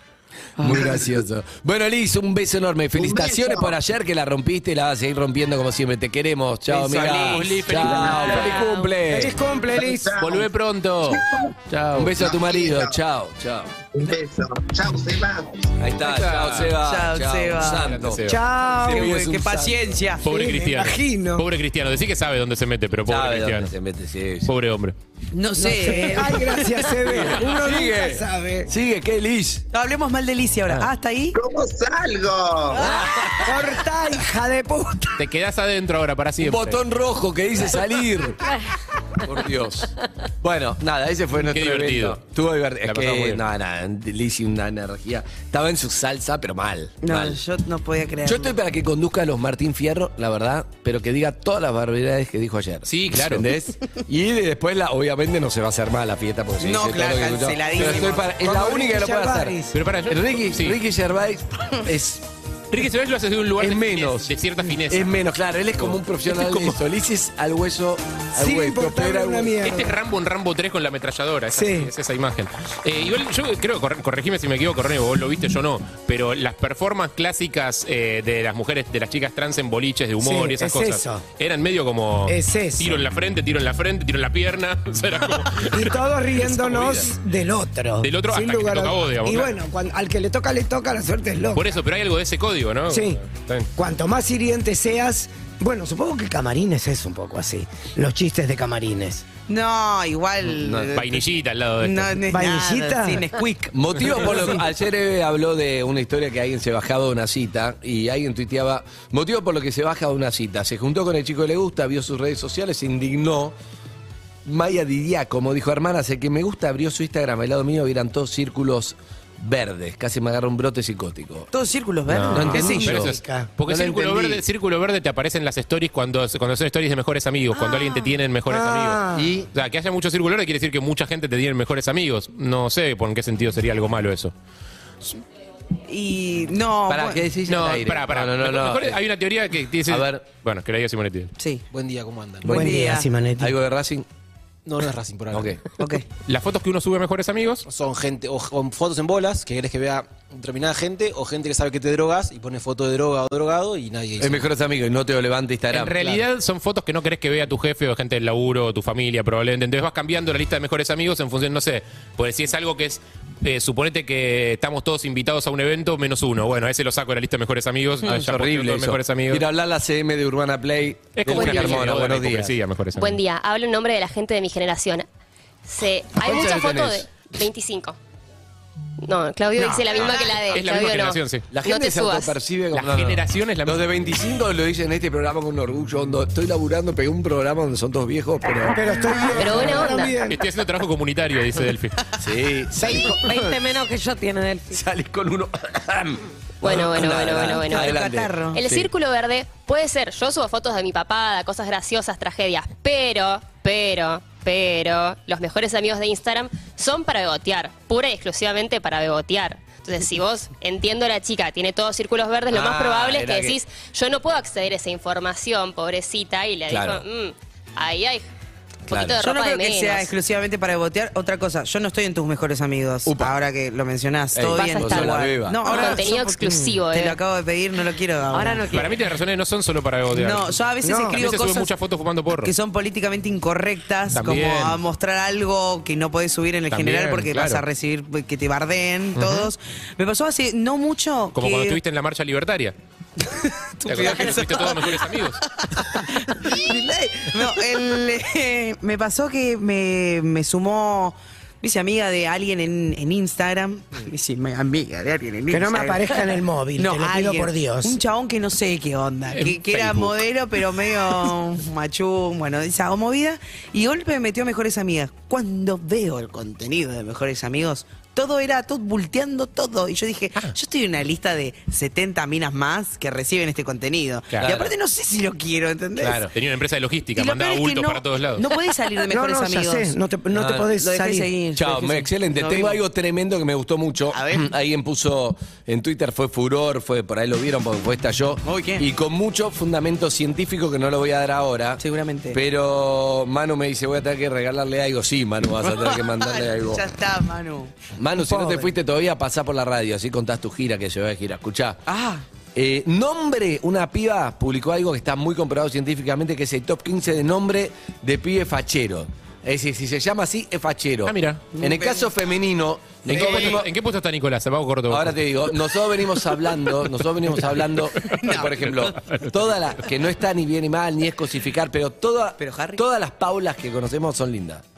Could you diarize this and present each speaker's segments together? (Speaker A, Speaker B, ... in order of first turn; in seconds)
Speaker A: 0.6-9.3, 11.9-13.7, 15.8-20.0, 23.1-24.5, 27.0-29.6, 32.8-33.5, 36.4-38.4, 39.2-47.4, 48.2-59.6, 60.1-62.2, 63.6-69.6, 86.5-87.1, 100.5-101.0, 103.7-113.5, 114.5-121.5, 122.3-124.4, 129.2-129.5, 136.9-139.0, 139.9-140.2, 142.5-142.8, 143.4-144.1, 145.3-145.6, 154.2-156.0, 168.0-172.5, 176.2-177.1, 181.5-188.9, 192.2-193.7, 194.7-198.9, 212.5-213.6, 216.7-217.1, 218.9-219.2, 223.1-223.3, 224.3-225.6, 280.3-280.7, 281.6-296.9, 298.0-301.8, 302.6-313.7, 314.9-324.6
Speaker B: 0.6-1.2, 3.0-3.8, 7.8-8.6, 9.7-10.5, 11.1-11.6, 12.2-13.0, 13.9-15.8, 31.3-33.0
Speaker C: 6.7-7.5, 16.8-17.9, 18.8-20.2, 25.3-26.9, 29.7-31.4, 47.0-48.6, 56.6-58.3, 99.5-101.3, 101.8-104.6, 121.5-123.0, 135.9-137.3, 141.4-141.6, 142.5-143.1, 145.8-146.0, 179.9-180.4, 197.7-198.6, 219.2-228.8, 230.1-231.7, 232.4-241.8, 243.2-256.2, 256.8-276.3, 277.2-279.9, 280.7-282.8, 284.1-284.5, 288.4-288.9, 291.8-292.4, 295.8-297.7, 301.9-302.2, 311.5-312.1, 313.1-313.6, 318.0-318.9, 322.4-322.8
Speaker D: 6.9-8.7, 10.2-12.2, 16.0-16.8, 17.7-18.4, 20.2-23.7, 24.5-24.9, 35.2-36.8, 41.4-42.2, 42.8-43.4, 52.9-53.5, 59.7-60.8, 62.7-65.2, 65.8-66.8, 69.6-86.0, 88.0-89.5, 91.5-93.7, 100.9-102.3, 122.1-134.3, 137.5-141.3, 146.3-147.7, 155.7-169.4, 171.2-173.1, 180.5-181.5, 182.7-183.9, 190.3-192.1, 228.7-230.6, 231.1-232.5, 234.1-234.8, 236.7-237.6, 239.2-239.5, 241.3-242.8, 243.9-245.4, 259.3-260.2, 274.3-274.7, 276.0-278.5, 311.1-311.5, 313.1-315.6
Speaker E: 9.1-10.2, 18.3-19.1, 20.2-21.4, 25.6-28.7, 33.3-35.2, 58.3-59.8, 68.4-70.0, 71.5-71.9, 80.2-81.2, 82.3-83.1, 85.7-91.7, 92.9-93.2, 93.8-99.2, 102.3-103.3, 122.5-123.5, 128.5-129.4, 142.4-143.5, 179.6-179.9, 188.7-190.4, 192.8-193.2, 226.4-226.8, 230.8-231.2, 255.5-258.0, 279.1-281.3, 298.3-298.6
Speaker F: 141.7-142.6, 144.7-145.6, 147.7-154.5, 156.0-156.2
Speaker G: 171.3-171.8, 173.0-175.1, 175.7-177.9, 179.0-182.3, 189.3-190.2, 196.6-198.0, 198.5-218.3, 218.9-220.1, 224.6-224.9, 225.7-227.2
Speaker H: 192.8-194.8, 228.3-229.0